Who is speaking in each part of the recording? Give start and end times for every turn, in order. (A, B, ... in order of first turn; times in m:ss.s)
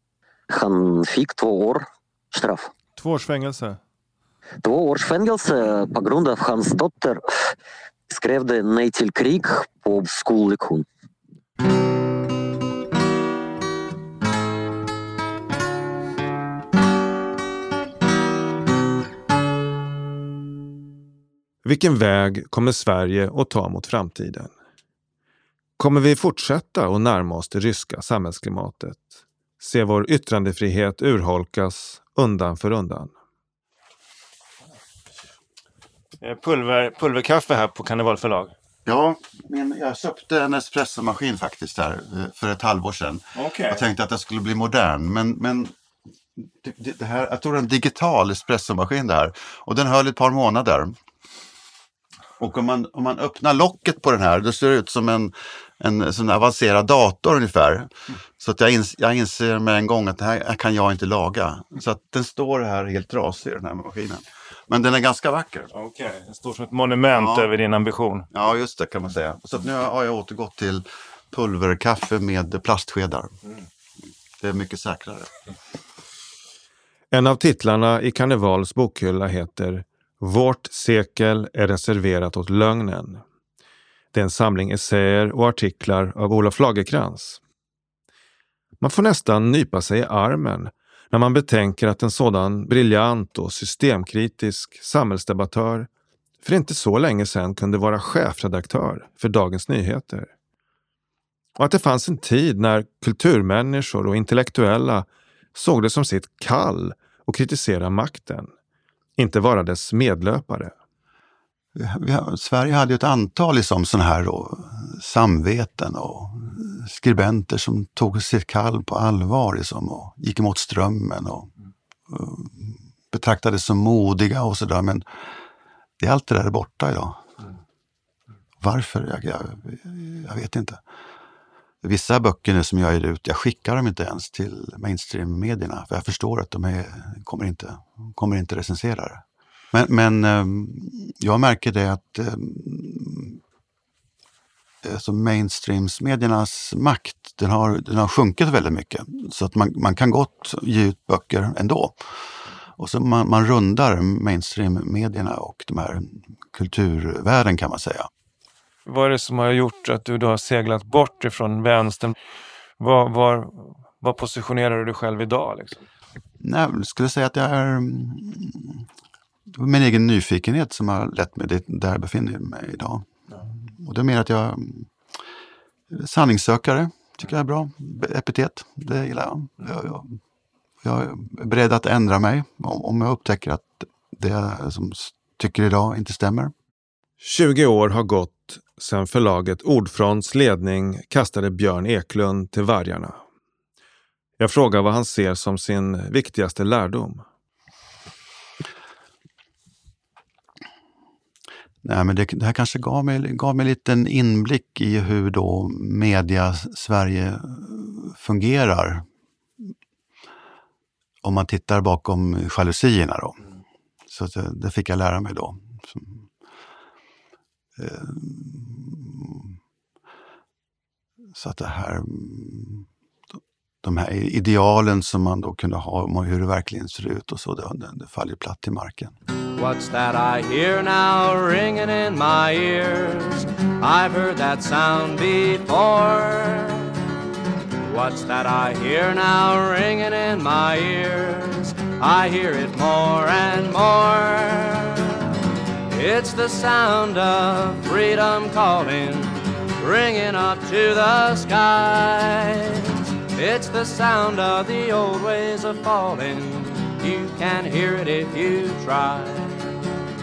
0:00.5-0:02.7 A
0:03.0-0:03.8 B
0:04.6-0:07.2 A
0:08.1-0:10.9 A
0:21.6-0:24.5 C
0:25.8-0:33.1 C
0:36.2-0:38.5 B
0:38.8-0:45.7 D
0:43.4-0:43.8 B
0:46.6-0:51.0 D
0:52.4-1:05.7 D
1:05.7-1:08.3 B
1:07.1-1:07.5 D
1:08.3-1:13.3 D
1:14.4-1:15.3 D
1:17.1-1:23.2 C
1:24.1-1:27.4 C
1:28.8-1:35.9 C
1:36.4-1:40.3 C
1:41.6-1:48.5 C
1:49.2-1:50.7 C
1:51.8-2:01.5 D
2:02.1-2:05.0 D
2:06.0-2:07.2 D
2:08.6-2:10.8 D
2:11.8-2:23.4 D
2:24.8-2:32.0 D
2:32.8-2:38.1 D
2:38.9-2:42.2 B
2:42.8-2:45.8 B
2:46.4-2:48.8 D
2:49.5-2:53.1 D
2:53.6-2:54.9 D
2:55.9-3:00.2 D
3:00.8-3:06.5 D
3:07.2-3:13.2 C
3:14.4-3:17.2 C
3:21.8-3:29.1 D
3:31.2-3:33.4 D
3:34.1-3:36.3 D
3:37.8-3:39.6 D
3:41.3-3:42.9 D
3:43.8-3:49.2 D
3:49.6-3:56.9 E
3:57.9-4:05.1 E
4:05.9-4:19.6 E